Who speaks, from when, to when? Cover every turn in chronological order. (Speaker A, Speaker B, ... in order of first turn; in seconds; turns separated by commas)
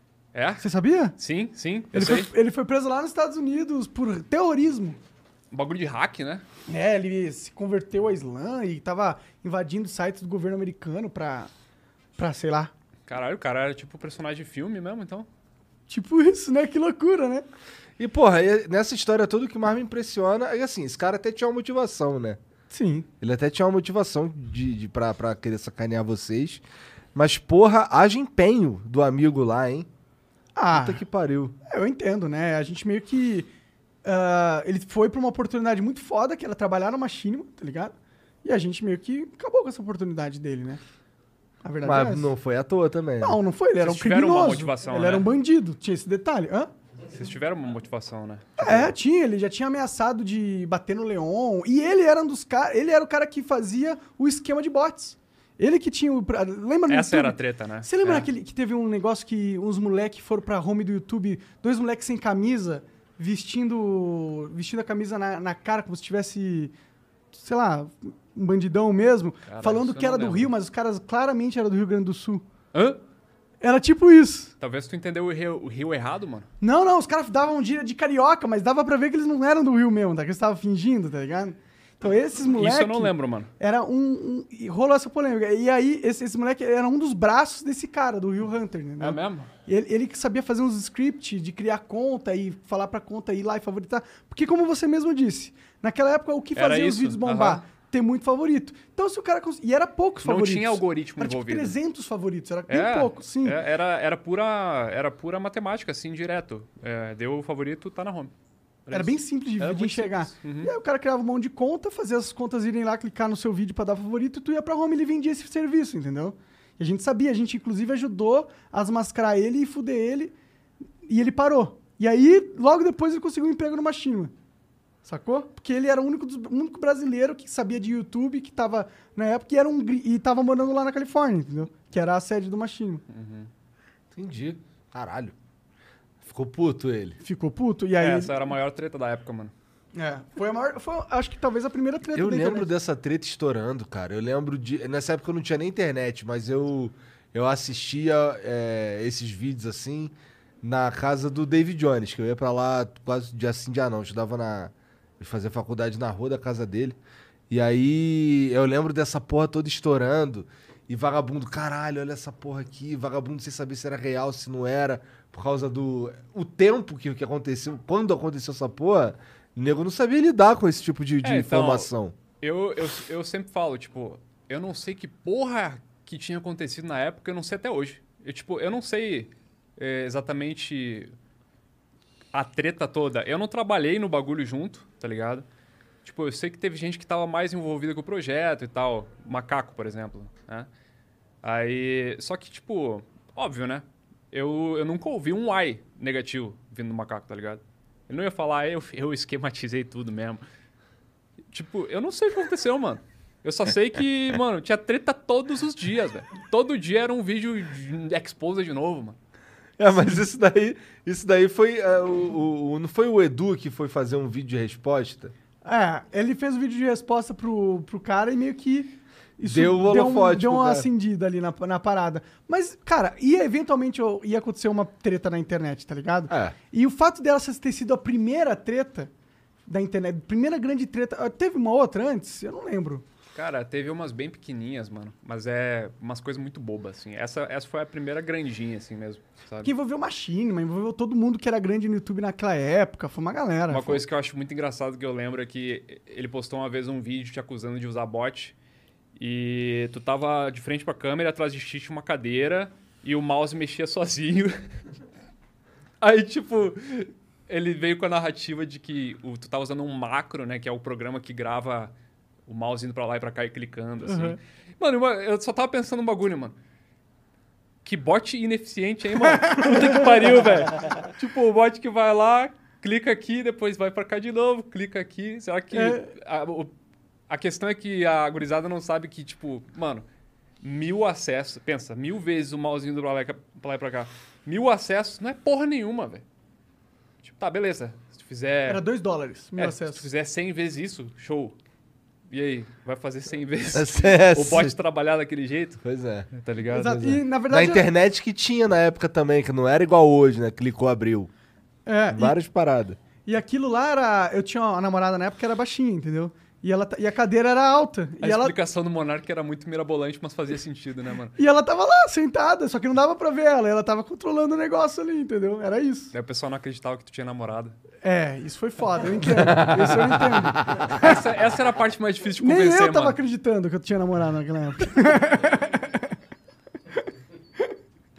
Speaker A: 0.3-0.6, Speaker B: 0.6-1.1, Speaker A: 1.1-2.3, Speaker B: 1.9-5.0, Speaker A: 5.5-6.4, Speaker B: 6.7-11.5, Speaker B: 12.2-12.7, Speaker A: 13.1-15.3, Speaker B: 15.9-17.4, Speaker C: 18.0-22.4, Speaker B: 22.7-23.1, Speaker C: 23.2-26.6, Speaker C: 27.1-29.9, Speaker B: 30.6-31.0, Speaker C: 30.7-31.6, Speaker B: 31.6-33.5, Speaker B: 34.0-40.8, Speaker B: 41.6-42.3, Speaker C: 41.8-43.4, Speaker B: 43.2-46.7, Speaker A: 43.8-45.3, Speaker A: 47.1-48.9, Speaker B: 48.6-66.7, Speaker A: 56.9-58.3, Speaker B: 67.3-72.4, Speaker A: 69.5-70.5, Speaker A: 72.7-73.0, Speaker B: 73.6-74.5, Speaker A: 74.6-76.5, Speaker B: 76.6-103.6, Speaker A: 82.5-83.5, Speaker A: 89.0-89.5, Speaker A: 96.5-97.6, Speaker A: 100.2-101.8, Speaker A: 102.7-108.3, Speaker A: 108.8-110.7, Speaker B: 108.9-120.3, Speaker B: 121.1-124.3, Speaker B: 125.0-133.0, Speaker A: 133.1-133.5, Speaker C: 134.1-135.3, Speaker C: 136.2-137.2, Speaker B: 137.2-138.5, Speaker A: 138.0-139.5, Speaker B: 139.9-142.7, Speaker C: 142.1-157.0, Speaker C: 157.5-172.2, Speaker A: 171.2-181.1, Speaker A: 182.3-185.4, Speaker A: 186.0-190.7, Speaker A: 191.4-200.4, Speaker A: 201.5-209.2, Speaker C: 209.8-215.3, Speaker B: 215.6-229.1, Speaker C: 219.4-220.9, Speaker C: 226.3-226.5, Speaker B: 229.7-233.0, Speaker A: 233.3-239.7, Speaker B: 239.6-244.0, Speaker A: 243.7-248.5, Speaker A: 249.2-254.6, Speaker A: 256.0-261.9, Speaker A: 262.4-266.6, Speaker B: 264.0-264.4, Speaker A: 267.8-276.7, Speaker B: 269.4-269.9, Speaker B: 275.7-276.1, Speaker A: 277.3-280.0, Speaker A: 280.6-286.2, Speaker A: 287.2-288.8, Speaker B: 288.7-290.1, Speaker A: 289.6-291.6, Speaker A: 292.3-297.1, Speaker C: 293.7-294.7, Speaker C: 295.8-296.3, Speaker B: 296.7-297.9, Speaker C: 296.9-301.3, Speaker B: 301.9-302.4, Speaker C: 302.1-303.0, Speaker B: 303.2-308.5, Speaker A: 308.2-311.4, Speaker B: 311.4-316.1, Speaker A: 316.1-317.8, Speaker B: 318.0-321.2, Speaker C: 319.2-320.9, Speaker A: 320.9-323.2, Speaker B: 322.4-326.1